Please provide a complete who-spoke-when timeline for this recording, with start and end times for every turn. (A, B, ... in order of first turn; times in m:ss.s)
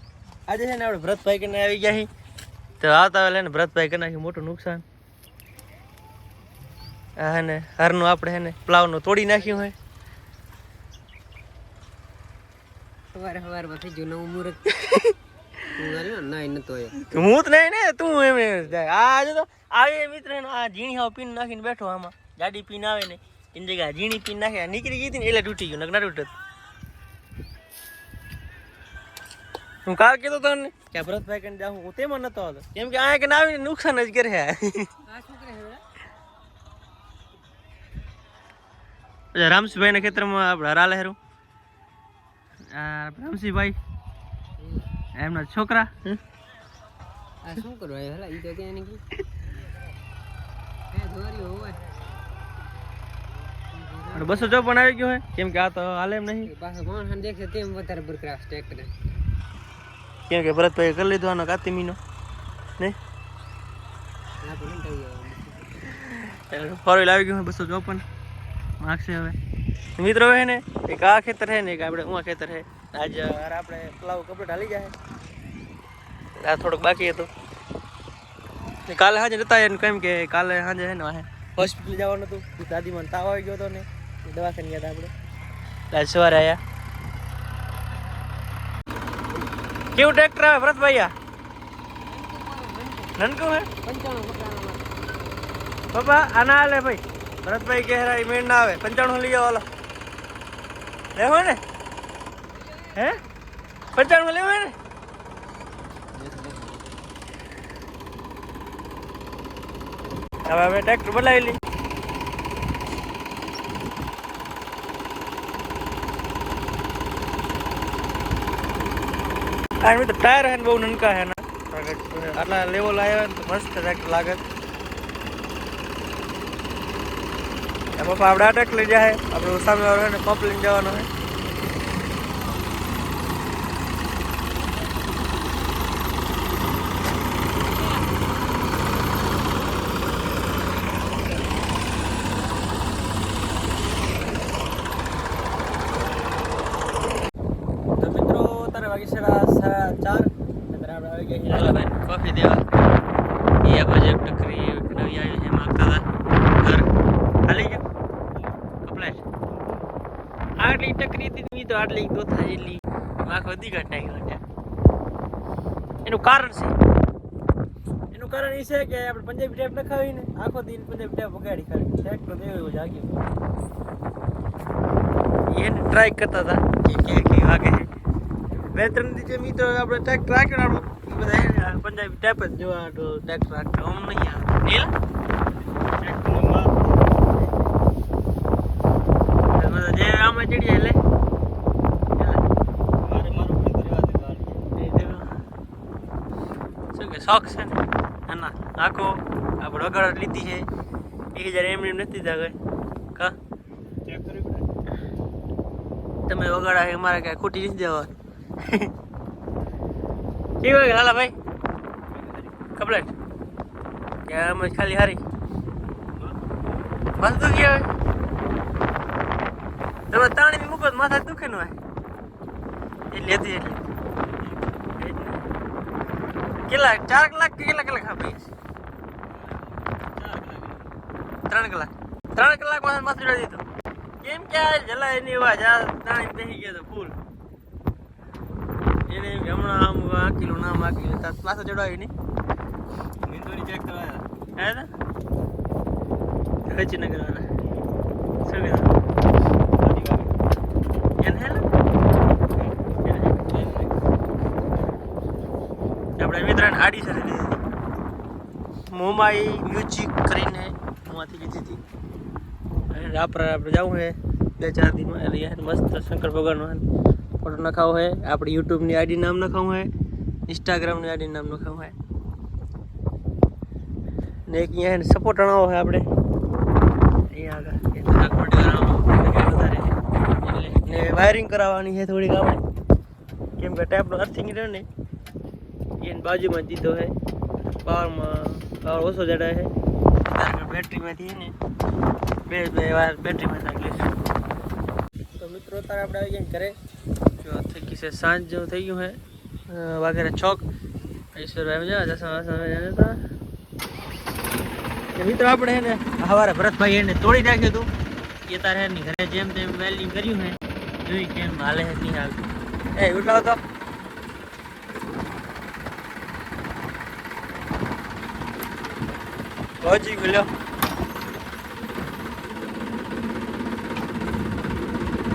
0:00.5-0:02.1 A
0:02.8-0:04.8 A
0:07.2-0:09.7 A
0:13.1-0:14.7 B
0:14.7-0:15.2 A
0:15.7-0:17.1 B
0:17.0-0:26.3 A
0:29.9-0:35.0 A
0:35.1-0:35.8 B
0:39.4-0:41.2 A
0:42.7-0:43.8 A
0:44.6-0:44.9 B
0:45.2-0:46.2 A
0:47.4-0:49.0 B
0:50.9-0:52.0 B
0:53.7-0:54.7 B
0:54.1-0:56.5 A
0:56.4-0:58.9 B
1:00.3-1:02.0 A
1:04.4-1:05.7 B
1:05.9-1:08.0 A
1:08.8-1:09.4 A
1:10.0-1:14.9 A
1:16.4-1:17.3 A
1:18.9-1:25.1 A
1:25.9-1:26.6 A
1:29.9-1:31.1 A
1:32.1-1:33.2 B
1:33.2-1:33.7 A
1:33.8-1:34.9 B
1:35.9-1:39.7 A
1:41.2-1:41.6 A
1:42.9-1:43.2 A
1:43.9-1:44.7 A
1:46.2-1:46.8 B
1:50.5-1:51.6 A
1:59.8-2:04.4 A
2:08.0-2:11.1 A
2:28.0-2:32.6 A
2:33.6-2:36.0 A
2:37.5-2:37.8 A
2:38.8-2:39.2 A
2:40.6-2:44.4 A
2:46.0-2:46.8 A
2:48.1-2:53.2 A
2:55.5-2:57.9 A
2:58.7-3:04.9 A
3:06.0-3:06.8 A
3:09.5-3:11.0 A
3:12.2-3:12.4 A
3:13.1-3:15.3 A
3:16.9-3:20.7 A
3:21.3-3:22.6 A
3:24.1-3:24.5 A
3:26.3-3:28.1 A
3:28.6-3:28.9 A
3:30.6-3:31.4 A
3:32.7-3:33.1 A
3:34.3-3:35.2 A
3:37.2-3:37.9 A
3:40.1-3:41.8 A
3:43.1-3:43.8 A
3:45.0-3:45.4 A
3:46.7-3:48.5 A
3:50.2-3:50.8 A
3:51.5-3:53.6 A
3:54.2-3:57.2 A
3:59.1-4:02.1 A
4:03.3-4:04.9 A
4:06.7-4:07.5 A
4:08.4-4:08.9 A
4:09.8-4:10.3 A
4:11.2-4:11.7 A
4:12.9-4:13.8 A
4:16.2-4:17.6 A
4:18.9-4:21.8 A
4:22.9-4:26.8 A
4:27.4-4:29.9 A
4:30.5-4:32.0 A
4:34.5-4:36.1 A
4:37.3-4:42.6 A
4:43.6-4:44.9 A
4:46.0-4:47.1 A
4:47.8-4:49.7 A
4:50.2-4:51.5 A
4:52.5-4:54.1 A
4:55.4-4:56.8 A
4:57.4-4:59.2 A
4:59.7-5:00.6 A
5:01.4-5:03.2 A
5:05.2-5:07.9 A
5:08.5-5:12.5 A
5:13.0-5:13.6 A
5:19.8-5:20.5 A